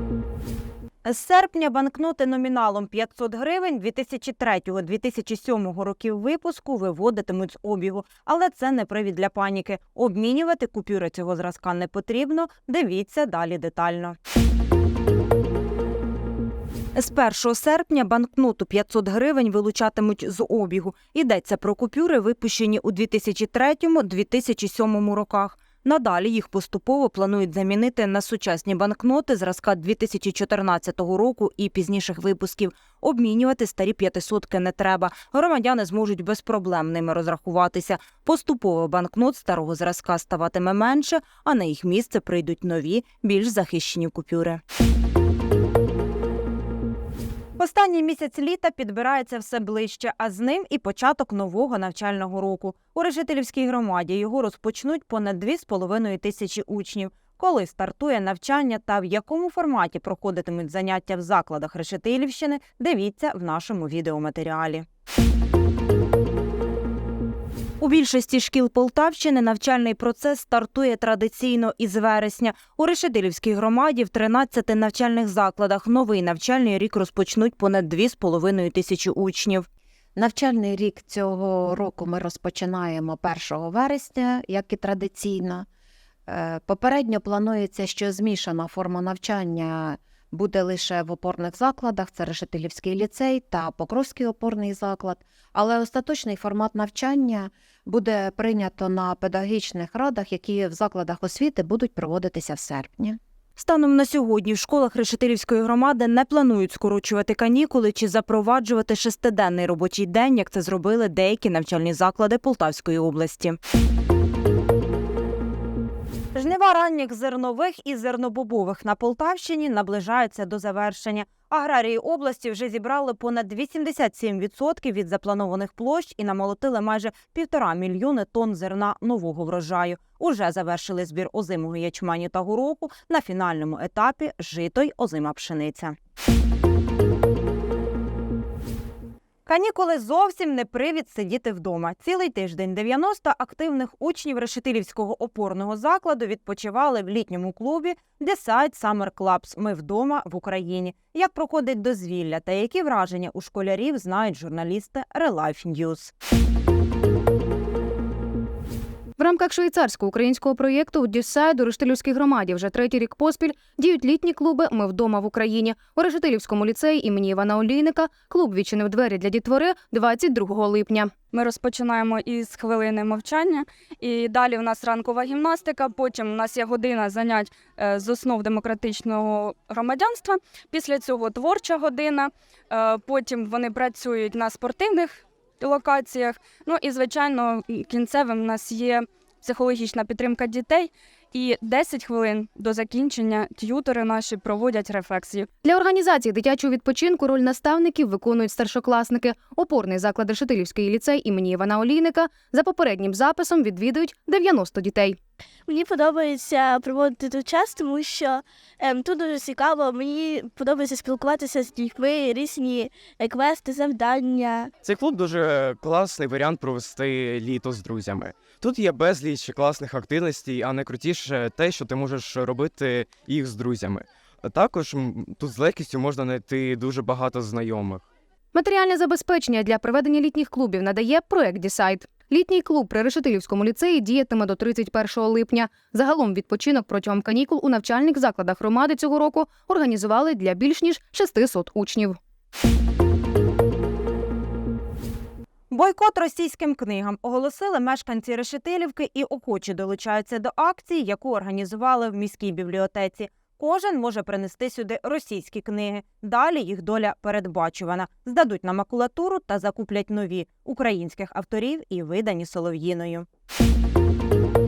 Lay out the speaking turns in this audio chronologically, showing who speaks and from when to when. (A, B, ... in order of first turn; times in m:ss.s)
0:01.0-0:14.2 A
0:17.0-0:44.6 A
0:47.6-1:04.8 A
1:07.8-1:19.7 A
1:20.2-1:25.6 B
1:26.3-1:43.2 B
1:43.6-1:53.6 A
1:56.3-2:15.9 A
2:19.4-2:36.1 A
2:39.2-2:51.1 C
2:51.3-3:15.5 D
3:15.6-3:25.2 C
3:25.7-3:34.7 E
3:34.8-3:48.0 F
3:48.5-4:02.2 C
4:05.7-4:23.2 A